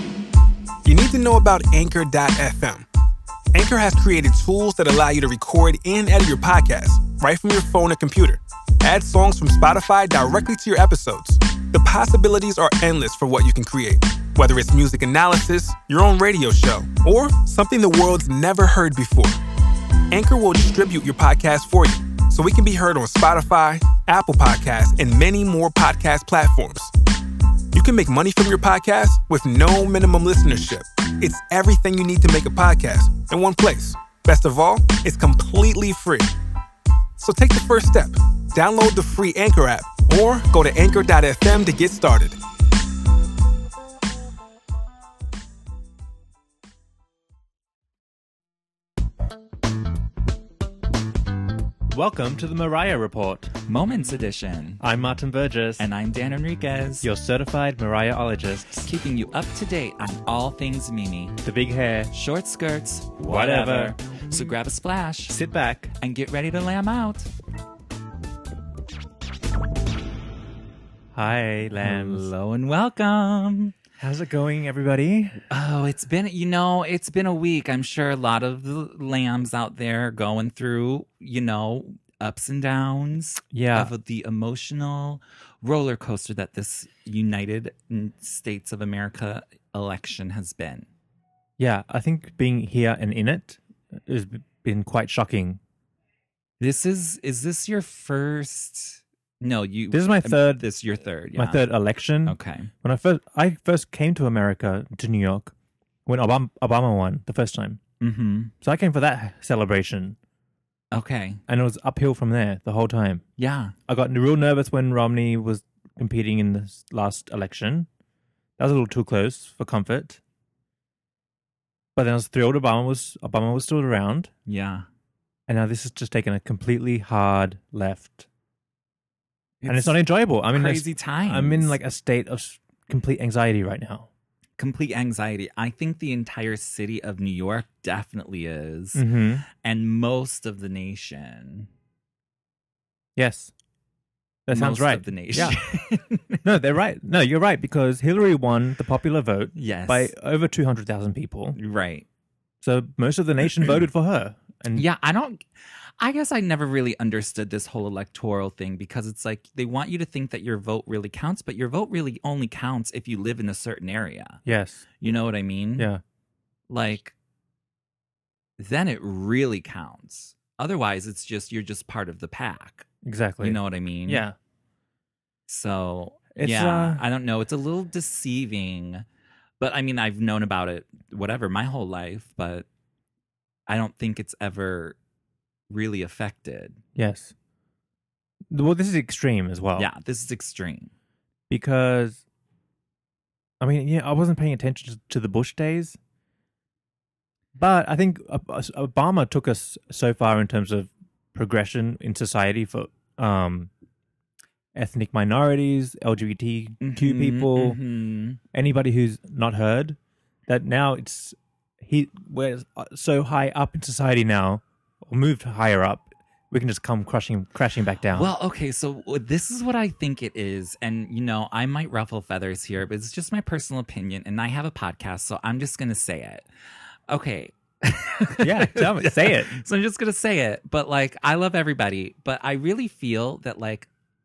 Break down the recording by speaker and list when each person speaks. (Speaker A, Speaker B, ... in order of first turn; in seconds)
Speaker A: 0.8-2.9, 3.5-19.4, 20.1-26.9, 27.7-36.3, 37.2-42.4
Speaker B: 51.9-53.5, 54.8-55.9, 57.0-58.9, 61.4-62.1, 63.2-64.0, 65.3-65.9, 71.1-72.3, 74.0-75.4, 83.5-83.9, 91.6-95.6, 99.9-100.7, 101.3-105.5, 106.1-107.8, 108.6-110.2, 111.5-113.2, 113.9-117.9, 118.6-120.2, 122.0-124.3, 125.5-128.3, 129.7-134.1, 138.9-139.4, 143.2-143.5, 144.5-145.6, 146.4-151.6, 152.6-154.9, 164.4-164.8, 173.0-174.4, 176.3-177.0, 187.0-187.3, 188.5-189.9, 191.5-192.2, 193.6-196.0, 197.6-203.7, 204.8-207.8, 208.5-218.3, 228.4-229.6
Speaker C: 53.7-54.8, 55.8-57.1, 58.8-61.4, 62.1-65.4, 66.0-67.3, 71.8-73.8, 75.5-90.9, 96.6-101.7, 102.2-102.7, 108.0-108.5, 110.9-111.4, 113.4-113.7, 124.5-124.9, 129.6-130.0, 130.5-131.8, 134.6-139.0, 139.6-141.7, 144.5-146.4, 149.6-150.1, 151.6-152.1, 154.7-155.5, 156.0-164.4, 165.0-165.9, 166.7-167.2, 168.6-172.9, 173.4-174.2, 175.5-179.0, 179.6-182.7, 183.7-185.0, 185.7-186.8, 189.8-190.9, 206.8-208.4, 218.1-226.5, 227.1-233.9